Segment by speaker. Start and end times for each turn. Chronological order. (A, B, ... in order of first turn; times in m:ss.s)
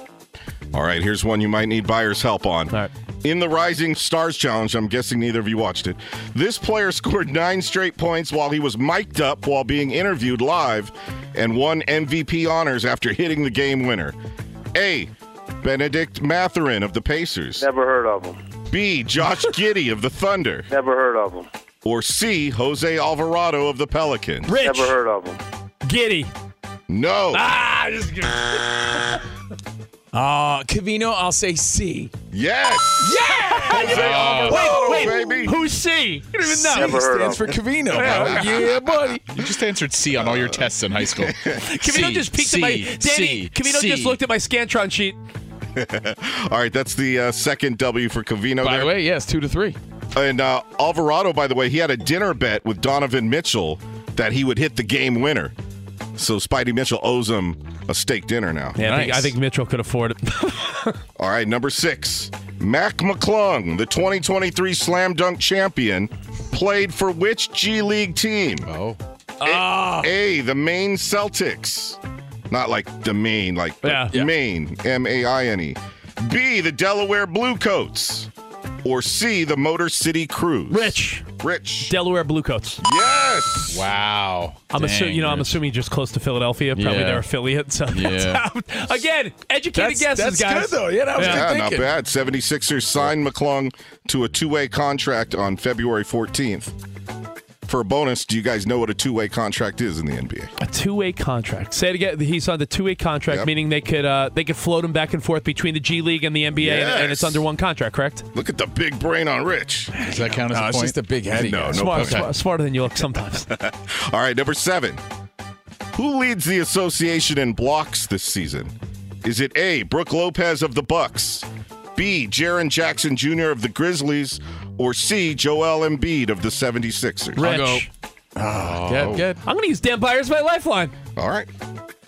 0:00.7-0:14.2 A
0:14.7-0:15.1 A
0:15.6-0:17.6 A
0:17.6-0:18.4 B
0:18.7-0:20.7 A
0:20.7-0:21.4 B
0:21.8-0:24.5 A
0:24.5-0:25.0 C
0:24.6-0:25.4 B
0:25.8-0:26.3 C
0:26.9-0:27.5 A
0:27.3-0:29.2 C
0:30.1-0:32.1 D
0:32.3-0:35.6 A
0:33.0-0:35.1 D
0:33.3-0:37.2 C
0:33.8-0:35.0 E
0:36.5-0:39.4 D
0:36.7-0:37.5 B
0:37.9-0:38.7 C
0:38.0-0:38.4 E
0:39.3-0:44.1 E
0:41.2-0:41.6 A
0:41.6-0:45.2 C
0:45.8-0:49.0 A
0:48.6-0:49.8 D
0:50.1-0:55.5 A
0:56.2-0:58.8 A
0:58.8-1:01.0 C
0:58.8-0:59.3 D
1:01.2-1:08.7 A
1:08.7-1:09.0 E
1:09.4-1:12.0 A
1:09.8-1:10.0 D
1:12.5-1:18.3 A
1:13.8-1:14.1 C
1:18.8-1:21.9 A
1:20.7-1:21.2 C
1:21.8-1:22.8 C
1:22.8-1:23.8 A
1:23.7-1:24.6 E
1:24.7-1:31.4 C
1:24.7-1:25.5 D
1:26.8-1:27.2 D
1:27.9-1:28.4 D
1:29.7-1:31.9 D
1:31.2-1:36.7 A
1:37.7-1:40.5 A
1:40.6-1:48.2 C
1:46.6-1:47.4 A
1:48.3-1:49.9 A
1:49.9-1:52.2 D
1:50.0-1:51.0 E
1:51.3-1:52.3 A
1:51.7-1:53.5 C
1:53.5-1:55.0 A
1:55.9-1:58.7 A
1:59.2-2:07.4 A
2:07.4-2:07.9 C
2:07.4-2:09.4 D
2:08.6-2:09.2 E
2:09.4-2:10.9 C
2:11.2-2:11.5 A